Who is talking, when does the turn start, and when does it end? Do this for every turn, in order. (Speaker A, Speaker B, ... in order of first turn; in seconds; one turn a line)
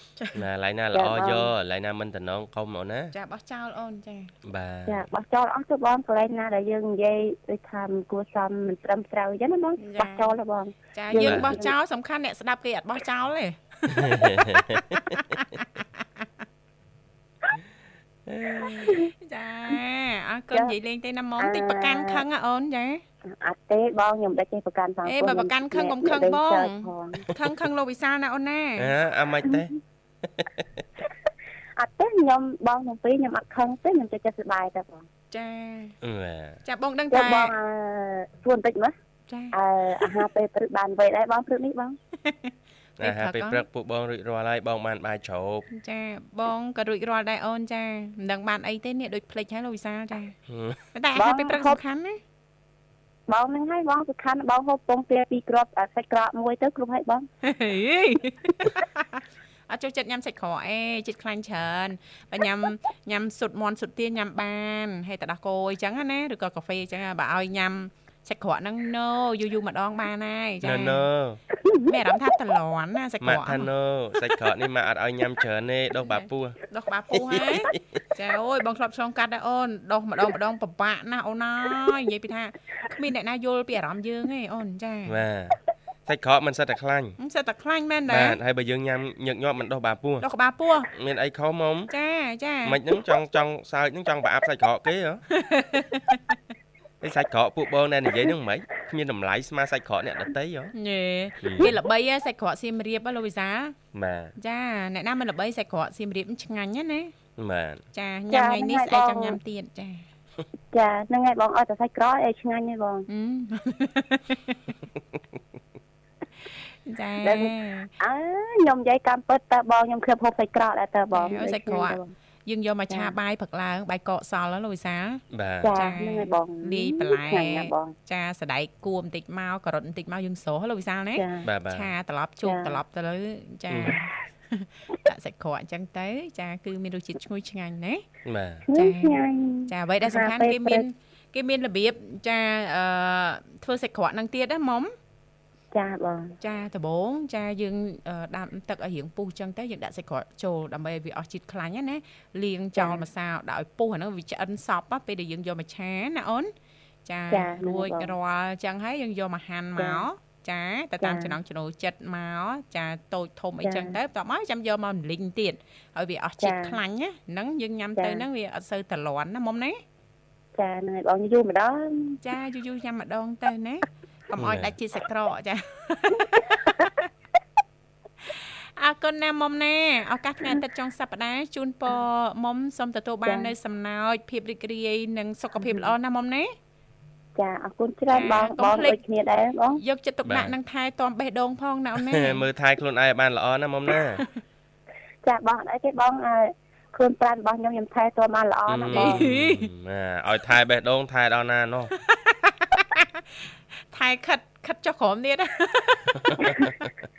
Speaker A: 0.3-3.1
Speaker B: 0.9-1.5
Speaker C: 3.1-4.3
Speaker A: 4.5-5.0
Speaker B: 4.8-11.7
Speaker C: 9.8-10.3
Speaker C: 10.9-16.0
Speaker A: 11.2-11.5
Speaker A: 13.9-14.8
Speaker A: 18.3-18.6
Speaker C: 18.6-23.0
Speaker B: 18.8-19.1
Speaker B: 21.4-22.2
Speaker B: 23.3-27.2
Speaker C: 25.0-28.9
Speaker A: 28.8-29.7
Speaker A: 30.4-30.8
Speaker B: 31.8-35.0
Speaker C: 35.3-35.9
Speaker A: 36.0-36.6
Speaker C: 36.6-37.5
Speaker B: 37.1-38.9
Speaker C: 39.3-40.1
Speaker B: 39.5-42.0
Speaker C: 42.2-43.6
Speaker A: 43.0-45.6
Speaker C: 45.7-50.4
Speaker A: 50.5-50.8
Speaker C: 50.9-52.2
Speaker B: 51.1-51.8
Speaker B: 53.3-57.3
Speaker C: 57.4-71.0
Speaker A: 70.6-71.4
Speaker C: 71.8-73.7
Speaker A: 73.2-76.6
Speaker C: 76.1-85.2
Speaker A: 77.2-77.8
Speaker A: 85.0-87.2
Speaker C: 87.2-88.4
Speaker A: 88.1-90.2
Speaker C: 90.2-90.9
Speaker A: 90.9-91.9
Speaker C: 91.9-92.8
Speaker A: 92.6-95.2
Speaker C: 95.3-96.4
Speaker A: 97.0-100.7
Speaker C: 100.7-103.8
Speaker A: 101.4-101.7
Speaker A: 103.9-104.3
Speaker C: 104.4-107.1
Speaker A: 107.4-107.8
Speaker C: 107.9-110.0
Speaker B: 108.3-109.4
Speaker B: 110.7-113.0
Speaker C: 113.1-114.7
Speaker C: 116.8-117.9
Speaker B: 117.2-122.1
Speaker C: 121.1-125.2
Speaker A: 125.3-125.7
Speaker B: 125.6-127.9
Speaker C: 125.7-138.0
Speaker B: 131.1-131.4
Speaker A: 131.4-131.9
Speaker B: 132.4-132.8
Speaker A: 133.7-133.9
Speaker A: 138.2-138.6
Speaker B: 138.7-140.8
Speaker C: 138.7-144.9
Speaker B: 145.7-146.3
Speaker C: 146.4-156.5
Speaker B: 152.8-153.0
Speaker C: 157.1-169.8
Speaker B: 157.3-158.1
Speaker B: 159.8-160.1
Speaker B: 161.0-161.3
Speaker B: 163.6-163.9
Speaker B: 166.4-166.8
Speaker B: 168.0-168.2
Speaker B: 170.6-172.2
Speaker C: 172.2-176.8
Speaker A: 174.4-174.7
Speaker C: 178.3-186.5
Speaker B: 183.2-183.5
Speaker B: 185.6-185.9
Speaker B: 187.3-189.8
Speaker C: 188.1-189.0
Speaker C: 189.8-192.4
Speaker A: 190.2-190.5
Speaker A: 192.0-194.2
Speaker B: 195.2-199.2
Speaker A: 198.7-201.9
Speaker C: 198.9-199.7
Speaker C: 202.0-206.7